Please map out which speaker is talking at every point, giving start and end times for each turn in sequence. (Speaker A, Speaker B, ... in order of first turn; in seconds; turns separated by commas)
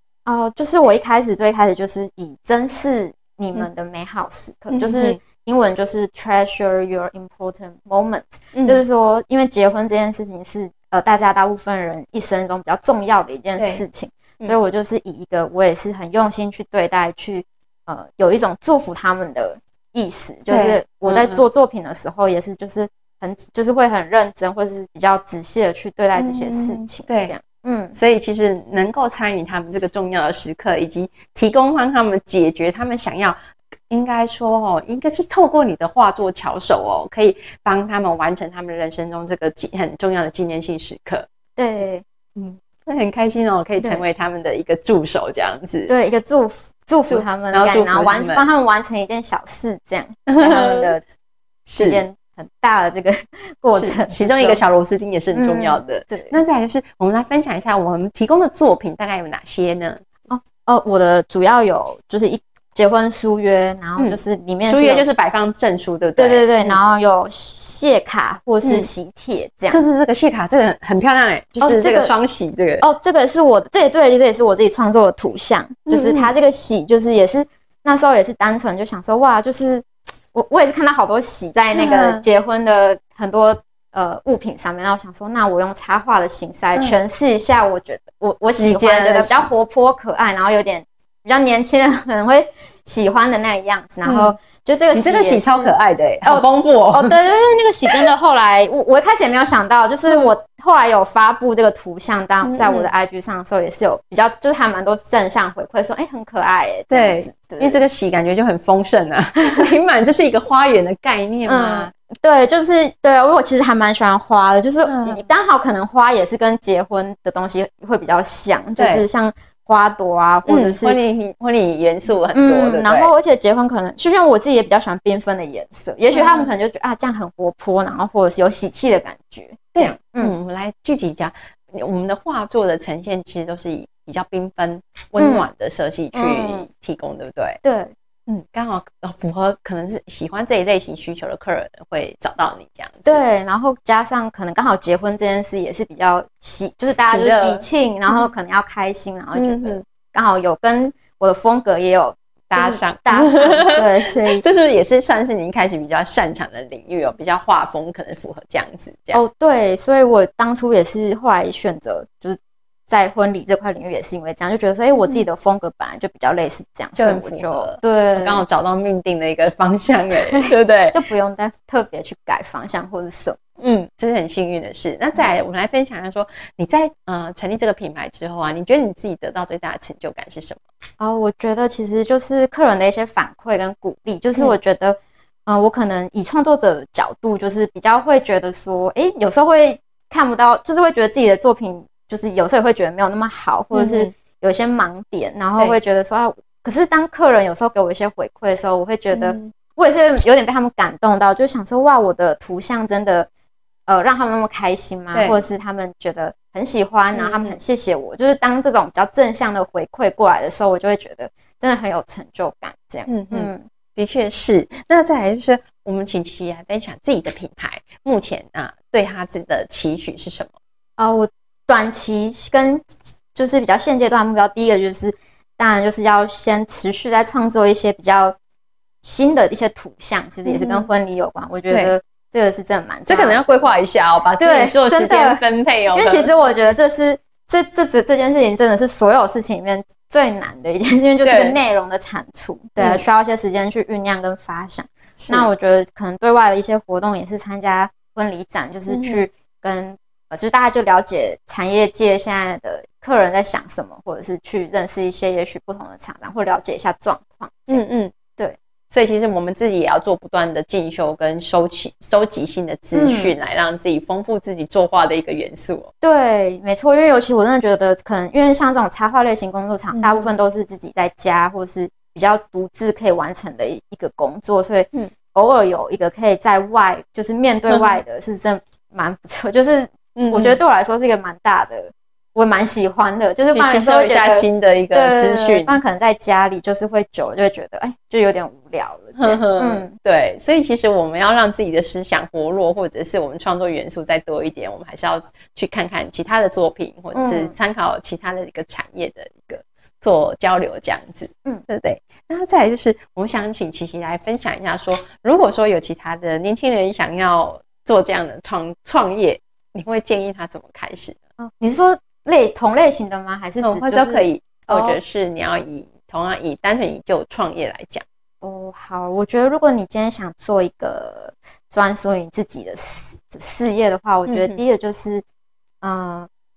Speaker A: 0.2-27.9, Speaker B: 4.7-5.2, Speaker B: 8.5-8.8, Speaker B: 13.6-13.8, Speaker B: 20.5-21.4, Speaker B: 26.1-27.3, Speaker B: 27.9-41.2, Speaker A: 41.6-42.0, Speaker B: 42.4-45.9, Speaker A: 45.9-51.0, Speaker B: 47.1-48.5, Speaker B: 50.3-50.9, Speaker B: 51.7-52.0, Speaker A: 51.8-54.6, Speaker B: 53.7-60.0, Speaker A: 55.3-56.4, Speaker A: 60.3-65.0, Speaker B: 64.0-66.8, Speaker A: 66.2-69.8, Speaker B: 69.7-72.8, Speaker A: 71.6-72.1, Speaker A: 72.8-107.8, Speaker B: 75.9-76.3, Speaker B: 81.7-82.2, Speaker B: 88.6-89.5, Speaker B: 94.0-94.3, Speaker B: 94.9-97.2, Speaker B: 102.4-102.9, Speaker B: 106.9-111.9, Speaker A: 111.5-121.0, Speaker B: 114.8-115.2, Speaker B: 118.8-119.0, Speaker B: 120.5-123.1, Speaker A: 122.3-130.3, Speaker B: 126.1-126.5, Speaker B: 129.7-137.6, Speaker A: 135.2-135.5, Speaker A: 136.1-136.7, Speaker A: 137.6-137.9, Speaker B: 138.3-143.2, Speaker A: 143.1-154.4, Speaker B: 147.1-148.2, Speaker B: 149.3-149.8, Speaker B: 152.5-159.2, Speaker A: 159.1-168.4, Speaker B: 167.0-171.0, Speaker A: 170.3-173.4, Speaker B: 173.6-180.6, Speaker A: 181.0-203.3, Speaker B: 193.7-194.1, Speaker B: 199.1-199.5, Speaker A: 203.9-213.7, Speaker B: 205.1-205.4, Speaker B: 207.1-207.6, Speaker B: 213.1-220.5, Speaker A: 221.0-228.3, Speaker A: 229.0-233.7, Speaker B: 230.4-230.9, Speaker B: 231.7-231.9, Speaker B: 233.1-236.3, Speaker A: 234.4-235.4, Speaker A: 235.9-257.8, Speaker B: 241.2-241.6, Speaker B: 242.8-243.0, Speaker B: 245.2-245.5, Speaker B: 248.9-249.2, Speaker B: 257.7-258.1, Speaker B: 258.9-265.9, Speaker A: 262.9-263.3, Speaker A: 266.0-289.9, Speaker B: 269.9-270.3, Speaker B: 280.1-280.6, Speaker B: 283.5-285.8, Speaker B: 289.1-311.2, Speaker A: 297.1-297.5, Speaker A: 311.4-315.0, Speaker B: 313.6-318.0, Speaker A: 318.4-325.2, Speaker B: 324.2-324.6, Speaker A: 325.8-326.3